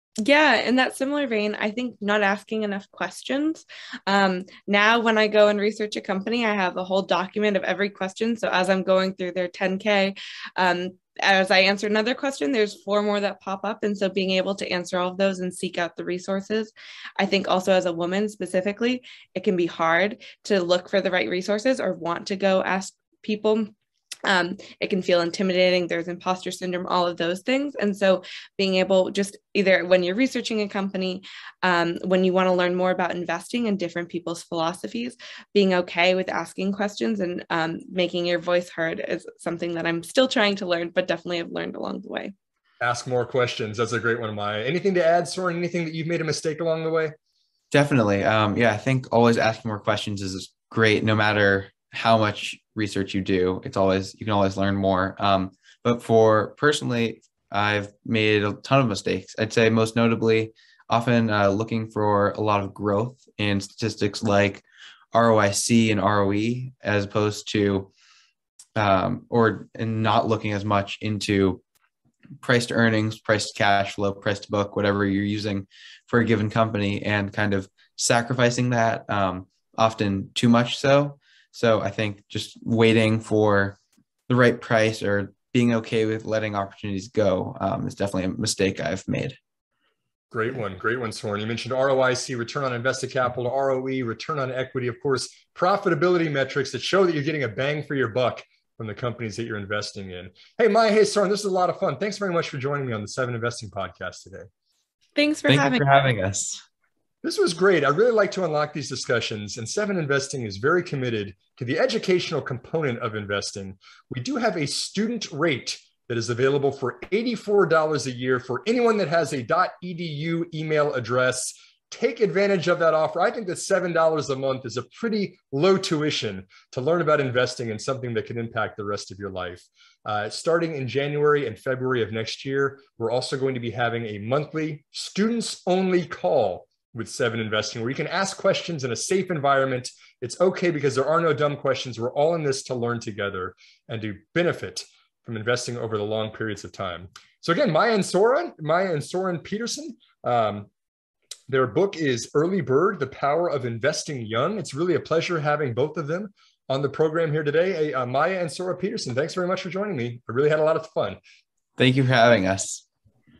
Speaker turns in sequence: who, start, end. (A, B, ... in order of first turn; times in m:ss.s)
0:00.2-0:23.7 A
0:24.3-0:42.3 A
0:42.8-0:47.1 B
0:47.7-1:07.9 C
1:08.8-1:11.6 C
1:12.4-1:23.8 C
1:24.3-1:29.4 C
1:30.3-1:44.5 B
1:45.2-1:45.8 A
1:45.5-1:46.6 C
1:47.2-2:30.7 B
2:31.5-2:41.2 B
2:41.8-2:42.8 C